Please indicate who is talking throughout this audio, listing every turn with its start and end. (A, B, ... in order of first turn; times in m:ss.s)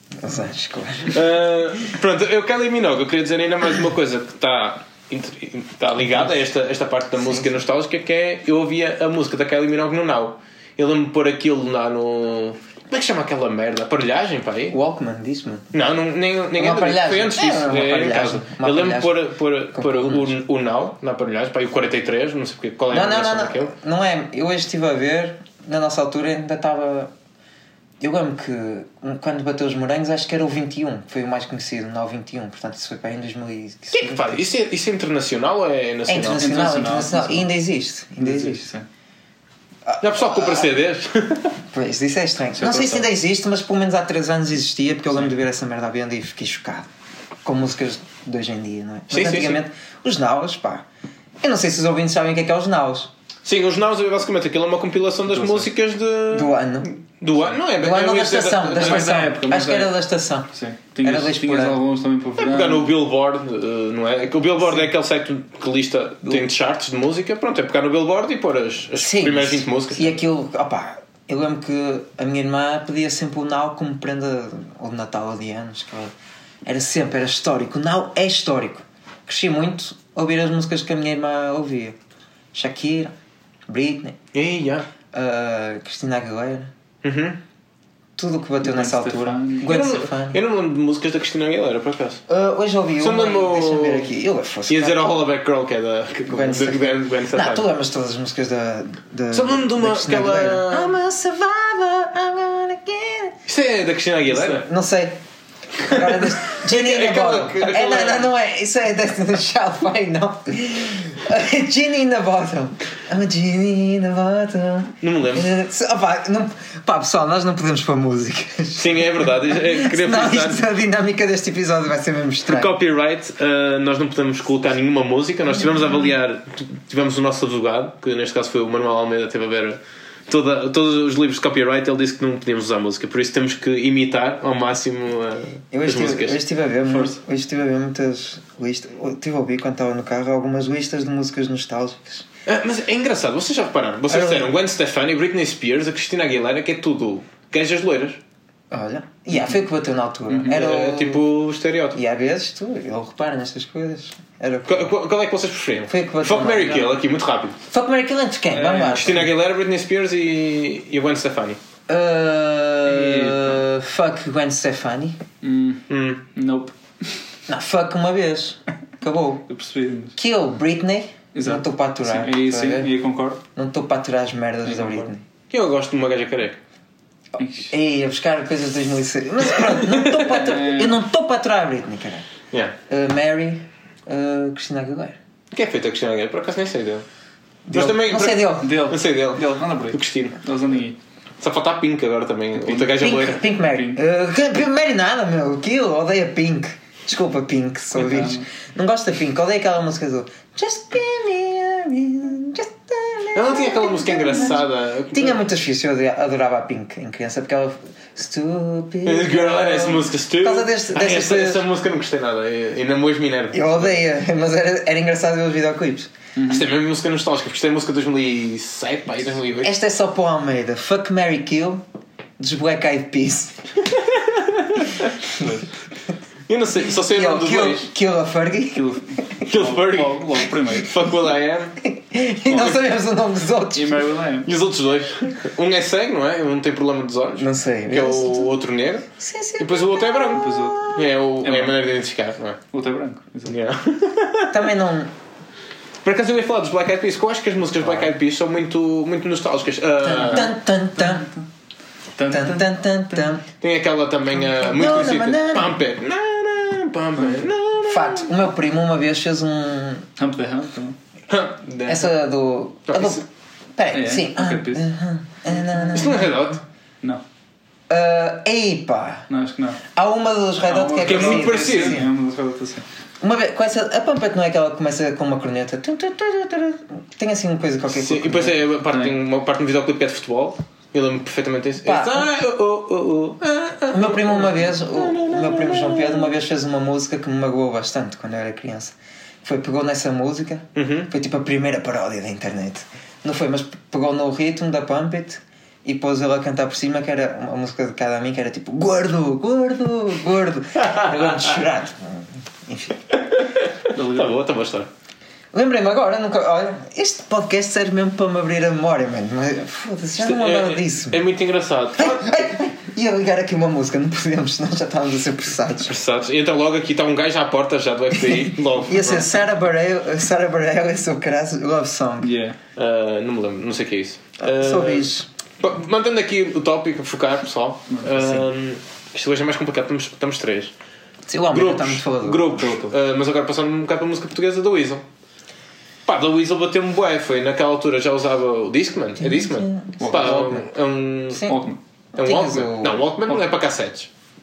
0:00.2-0:01.3 A
0:01.1-0:14.8 B
0:06.0-0:06.3 A
0:07.2-0:07.6 A
0:14.7-0:15.7 A
0:15.7-0:23.7 B
0:16.5-0:19.2 A
0:19.7-0:20.4 A
0:22.9-0:27.1 A
0:28.0-0:34.4 A
0:33.9-0:36.4 B
0:36.1-0:38.7 A
0:36.4-0:37.5 C
0:38.2-0:38.8 C
0:39.8-0:40.7 A
0:40.0-0:41.5 B
0:41.7-0:46.9 A
0:42.5-0:43.1 C
0:47.4-0:50.8 A
0:49.1-0:49.6 B
0:51.4-0:53.1 A
0:53.4-0:59.2 B
0:55.3-0:55.6 C
0:56.3-0:56.9 A
0:57.7-1:01.8 A
0:58.8-0:59.9 C
1:00.5-1:02.9 C
1:02.4-1:10.1 B
1:09.0-1:16.1 A
1:16.6-1:22.0 A
1:22.5-1:23.1 A
1:23.7-1:24.2 A
1:24.3-1:24.9 B
1:25.1-1:26.7 A
1:27.0-1:27.4 B
1:28.2-1:30.4 A
1:28.6-1:29.8 C
1:29.6-1:32.2 B
1:32.3-1:35.1 A
1:33.0-1:34.1 B
1:34.7-1:37.6 B
1:36.3-1:43.4 A
1:39.3-1:41.0 B
1:43.4-1:44.7 B
1:44.3-1:45.2 A
1:45.8-1:48.3 B
1:45.8-2:02.7 A
1:55.0-1:55.6 B
1:58.8-2:00.6 B
2:02.5-2:17.2 B
2:15.7-2:22.3 A
2:22.4-2:28.2 B
2:24.1-2:24.5 A
2:28.7-2:31.2 A
2:30.3-2:30.6 C
2:30.4-2:32.0 B
2:31.9-2:34.9 A
2:34.7-2:37.6 B
2:35.9-2:37.0 A
2:37.7-2:39.3 A
2:38.5-2:39.3 C
2:38.9-2:41.6 B
2:41.9-2:45.2 A
2:42.8-2:43.6 C
2:45.4-2:47.2 C
2:45.9-2:46.2 B
2:47.5-2:49.5 A
2:49.5-2:50.1 C
2:50.2-2:52.9 A
2:51.3-2:53.4 C
2:53.5-2:55.2 A
2:54.6-2:55.1 C
2:55.5-2:56.6 B
2:57.4-2:57.7 C
2:57.7-3:02.2 A
3:00.2-3:01.0 C
3:02.9-3:05.2 A
3:05.5-3:07.0 B
3:07.6-3:08.8 A
3:07.7-3:10.4 B
3:08.6-3:11.0 C
3:11.4-3:13.4 B
3:12.6-3:13.0 C
3:12.9-3:31.6 A
3:13.6-3:14.0 C
3:18.0-3:18.4 C
3:23.3-3:25.4 B
3:29.0-3:34.0 B
3:33.5-3:36.1 A
3:36.4-3:36.7 C
3:36.4-3:39.7 B
3:39.6-3:41.8 A
3:42.4-3:43.6 A
3:43.9-3:45.1 B
3:45.3-3:45.7 C
3:46.5-3:47.8 B
3:47.0-3:48.9 A
3:48.7-3:51.0 C
3:49.4-3:51.8 B
3:51.8-3:54.1 A
3:52.5-3:52.8 C
3:53.7-3:54.5 C
3:54.4-3:59.1 B
3:57.4-4:01.1 A
3:59.6-4:02.6 B
4:00.3-4:01.8 C
4:02.7-4:03.5 C
4:03.4-4:04.7 B
4:04.5-4:05.1 A
4:06.0-4:10.5 B
4:07.8-4:08.1 A
4:10.0-4:11.3 A
4:11.0-4:11.3 C
4:12.2-4:13.3 C
4:12.3-4:13.4 A
4:13.6-4:18.3 B
4:14.6-4:15.8 A
4:17.9-4:20.0 A
4:20.2-4:21.0 C
4:21.3-4:22.1 B
4:21.8-4:23.2 A
4:22.9-4:23.2 B
4:23.8-4:26.6 A
4:23.9-4:24.9 C
4:25.9-4:26.6 B
4:27.9-4:29.3 A
4:29.3-4:29.8 C
4:29.9-4:32.1 A
4:30.6-4:32.8 C
4:31.0-4:32.0 B
4:33.2-4:38.6 A
4:37.9-4:46.3 B
4:38.9-4:39.2 C
4:41.8-4:42.3 A
4:43.9-5:03.0 A
4:50.7-4:51.1 B
5:00.8-5:01.1 B
5:03.1-5:04.9 B
5:03.9-5:04.4 C
5:05.5-5:11.3 A
5:10.2-5:12.3 B
5:12.0-5:15.9 A
5:15.8-5:19.3 B
5:18.3-5:22.3 A
5:22.2-5:22.6 C
5:22.8-5:25.1 B
5:24.4-5:25.3 A
5:25.6-5:30.7 B
5:28.1-5:28.4 A
5:31.3-5:32.6 A
5:31.5-5:35.0 B
5:32.6-5:32.9 C
5:36.0-5:41.5 B
5:39.2-5:40.7 A
5:40.0-5:40.6 C
5:41.3-5:41.6 A
5:41.4-5:41.8 C
5:42.1-5:43.1 A
5:42.2-5:44.1 B